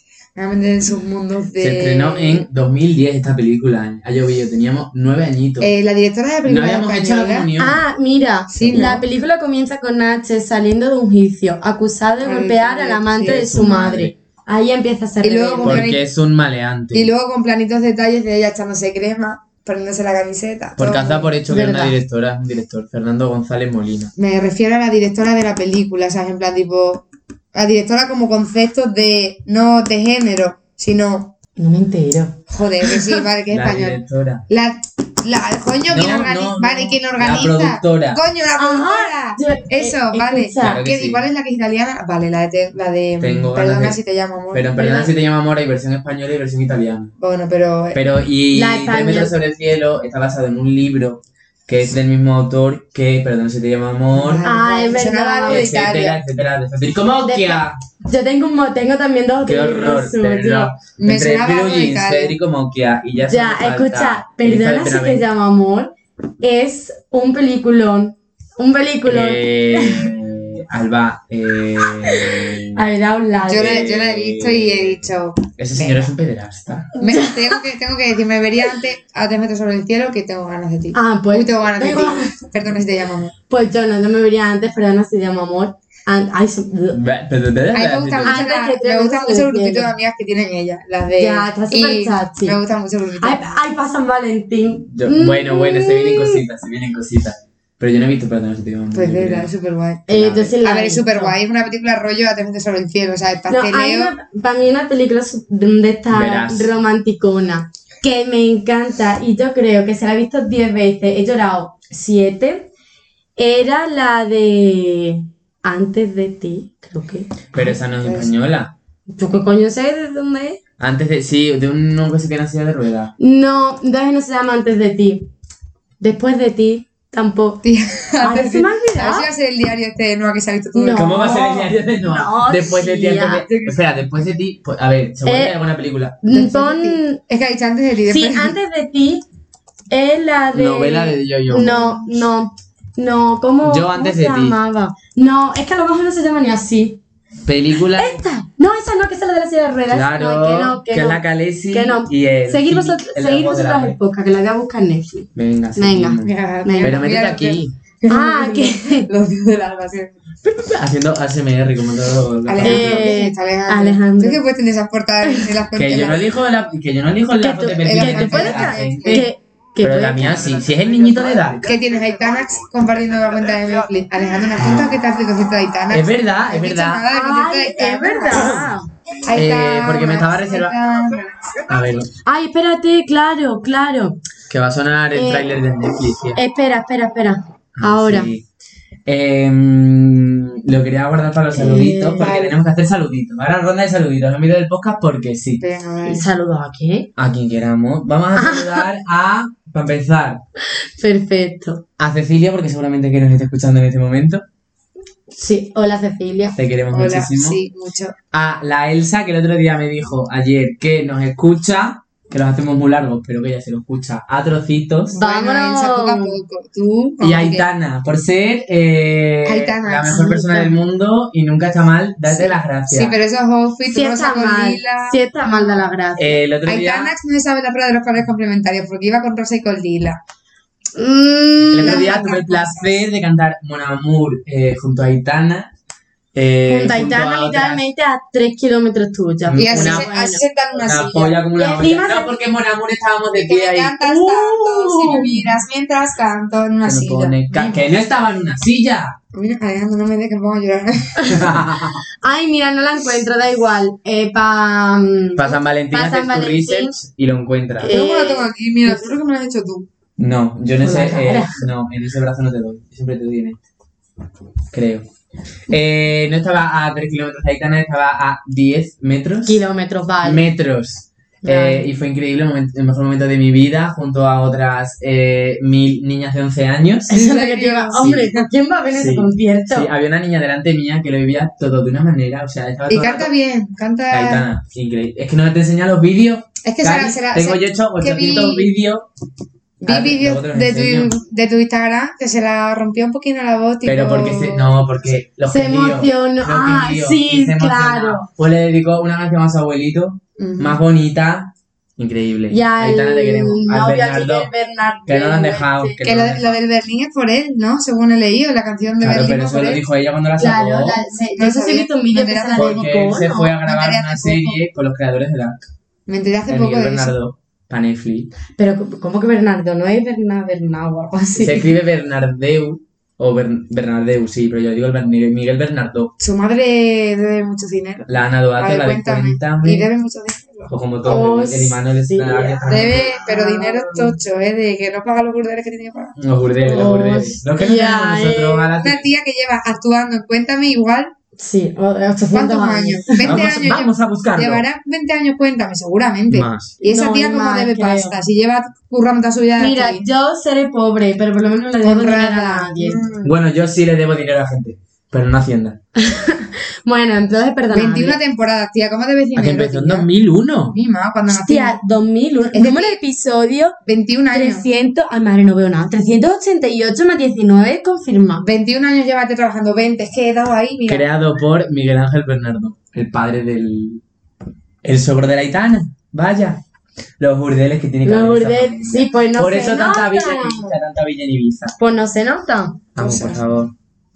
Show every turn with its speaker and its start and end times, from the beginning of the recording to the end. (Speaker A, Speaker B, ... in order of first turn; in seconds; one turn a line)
Speaker A: 0.3-2.5
Speaker B: 1.6-5.7
Speaker A: 5.6-7.5
Speaker B: 6.5-7.8
Speaker C: 7.6-15.9
Speaker A: 8.5-9.0
Speaker B: 8.6-8.9
Speaker A: 12.2-13.5
Speaker B: 13.2-14.1
Speaker A: 15.2-16.0
Speaker B: 15.6-17.1
Speaker A: 16.9-21.3
Speaker B: 20.8-24.1
Speaker C: 21.5-21.9
Speaker A: 24.2-31.3
Speaker C: 31.6-33.2
Speaker A: 32.5-45.1
Speaker B: 33.5-34.4
Speaker B: 35.9-38.2
Speaker C: 38.6-40.8
Speaker B: 40.6-41.2
Speaker B: 43.2-44.0
Speaker B: 44.5-47.1
Speaker A: 47.2-48.0
Speaker B: 47.9-54.4
Speaker C: 48.5-49.3
Speaker A: 54.1-56.1
Speaker C: 54.4-56.2
Speaker B: 55.5-57.8
Speaker C: 57.2-60.8
Speaker B: 59.4-65.2
Speaker A: 61.0-62.4
Speaker C: 63.2-70.1
Speaker B: 69.0-72.8
Speaker C: 72.1-73.8
Speaker A: 73.4-76.1
Speaker B: 73.5-75.0
Speaker B: 75.6-76.9
Speaker C: 76.9-77.6
Speaker A: 77.0-83.3
Speaker C: 80.9-82.4
Speaker C: 83.5-87.0
Speaker B: 86.9-88.4
Speaker A: 87.7-93.5
Speaker C: 88.2-89.9
Speaker C: 91.1-92.6
Speaker C: 93.2-96.4
Speaker B: 94.9-99.5
Speaker A: 98.9-100.1
Speaker C: 100.1-101.3
Speaker B: 100.1-100.5
Speaker A: 100.6-104.1
Speaker C: 103.5-112.7
Speaker B: 106.1-106.7
Speaker C: 113.4-117.7
Speaker B: 117.5-118.7
Speaker A: 117.6-118.3
Speaker C: 119.1-120.6
Speaker B: 120.8-123.1
Speaker C: 123.2-125.3
Speaker C: 126.0-127.6
Speaker A: 127.6-131.4
Speaker C: 128.2-129.3
Speaker C: 130.7-133.7
Speaker B: 130.9-136.2
Speaker C: 135.2-135.6
Speaker C: 136.2-137.2
Speaker A: 136.3-138.6
Speaker C: 138.1-139.2
Speaker C: 139.9-147.0
Speaker B: 140.5-142.2
Speaker B: 143.6-144.6
Speaker B: 147.4-148.2
Speaker C: 147.9-157.0
Speaker B: 149.9-154.0
Speaker B: 155.3-157.7
Speaker A: 156.2-160.1
Speaker C: 158.1-159.1
Speaker B: 160.4-163.2
Speaker A: 162.5-166.3
Speaker C: 162.6-164.4
Speaker C: 165.2-165.5
Speaker B: 165.7-169.3
Speaker C: 167.4-170.5
Speaker A: 167.7-169.3
Speaker B: 169.8-171.7
Speaker A: 171.6-178.7
Speaker B: 174.6-174.9
Speaker B: 175.9-177.0
Speaker C: 177.1-178.9
Speaker B: 178.4-178.7
Speaker A: 179.2-181.3
Speaker B: 179.3-180.8
Speaker B: 181.6-182.1
Speaker C: 182.2-184.2
Speaker B: 184.5-186.4
Speaker C: 185.1-185.5
Speaker C: 186.3-188.3
Speaker B: 187.8-188.4
Speaker B: 189.1-195.6
Speaker C: 191.5-192.3
Speaker A: 192.2-192.6
Speaker A: 195.6-196.2
Speaker C: 196.1-197.1
Speaker B: 197.2-200.4
Speaker C: 198.3-198.9
Speaker C: 200.7-201.8
Speaker B: 202.0-204.4
Speaker C: 205.3-206.6
Speaker B: 206.5-207.6
Speaker A: 206.9-208.1
Speaker B: 208.3-215.2
Speaker A: 215.1-217.6
Speaker C: 215.1-216.3
Speaker B: 217.2-223.2
Speaker A: 219.4-220.3
Speaker C: 220.1-220.7
Speaker A: 222.3-225.7
Speaker C: 223.9-226.4
Speaker B: 226.2-227.1
Speaker A: 226.6-230.2
Speaker C: 230.9-232.1
Speaker B: 231.7-235.7
Speaker A: 231.8-233.0
Speaker B: 236.3-237.9
Speaker C: 236.7-240.4
Speaker B: 239.5-240.1
Speaker A: 239.5-242.0
Speaker B: 240.8-244.0
Speaker C: 241.6-242.4
Speaker A: 243.3-247.4
Speaker C: 244.0-245.4
Speaker B: 246.8-249.2
Speaker C: 247.5-247.9
Speaker A: 249.3-251.5
Speaker C: 251.2-251.4
Speaker B: 251.3-252.0
Speaker C: 252.2-256.9
Speaker B: 255.3-257.9
Speaker C: 257.8-259.1
Speaker A: 257.9-259.9
Speaker B: 260.2-263.6
Speaker C: 260.8-261.7
Speaker B: 264.7-265.1
Speaker B: 265.7-269.6
Speaker C: 269.4-270.4
Speaker B: 270.2-277.1
Speaker C: 271.4-271.9
Speaker C: 277.1-279.9
Speaker A: 277.1-278.5
Speaker B: 277.9-278.3
Speaker B: 278.9-283.3
Speaker A: 282.9-284.4
Speaker B: 284.1-289.1
Speaker A: 286.6-288.7
Speaker A: 289.8-294.8
Speaker B: 289.8-291.1
Speaker B: 293.8-304.5
Speaker C: 295.5-298.3
Speaker A: 300.4-300.8
Speaker C: 302.5-306.0
Speaker B: 305.1-306.6
Speaker A: 306.0-309.8
Speaker B: 309.0-311.0
Speaker C: 310.4-313.5
Speaker A: 311.1-314.6
Speaker B: 312.6-315.7
Speaker A: 316.1-317.1
Speaker B: 316.5-318.3
Speaker C: 318.6-321.7
Speaker B: 321.4-326.1
Speaker A: 326.2-330.7
Speaker B: 328.1-329.9
Speaker B: 330.7-333.2
Speaker C: 331.0-334.1
Speaker A: 332.7-336.1
Speaker B: 336.2-339.1
Speaker C: 336.6-338.7
Speaker A: 338.8-341.1
Speaker C: 341.4-343.3
Speaker A: 342.3-350.0
Speaker B: 343.2-344.6
Speaker B: 346.3-346.8
Speaker C: 346.8-348.2
Speaker C: 349.6-353.0
Speaker A: 351.8-353.3
Speaker B: 353.2-355.8
Speaker C: 355.9-358.2
Speaker A: 357.7-360.1
Speaker B: 359.4-360.8
Speaker A: 360.7-361.8
Speaker C: 361.3-363.8
Speaker A: 362.5-363.0
Speaker A: 363.8-364.6
Speaker C: 364.3-368.4
Speaker A: 368.4-371.1
Speaker B: 370.9-374.0
Speaker B: 374.8-376.6
Speaker B: 377.2-381.7
Speaker C: 378.0-380.7
Speaker C: 381.8-382.8
Speaker B: 382.9-383.7
Speaker A: 382.9-383.6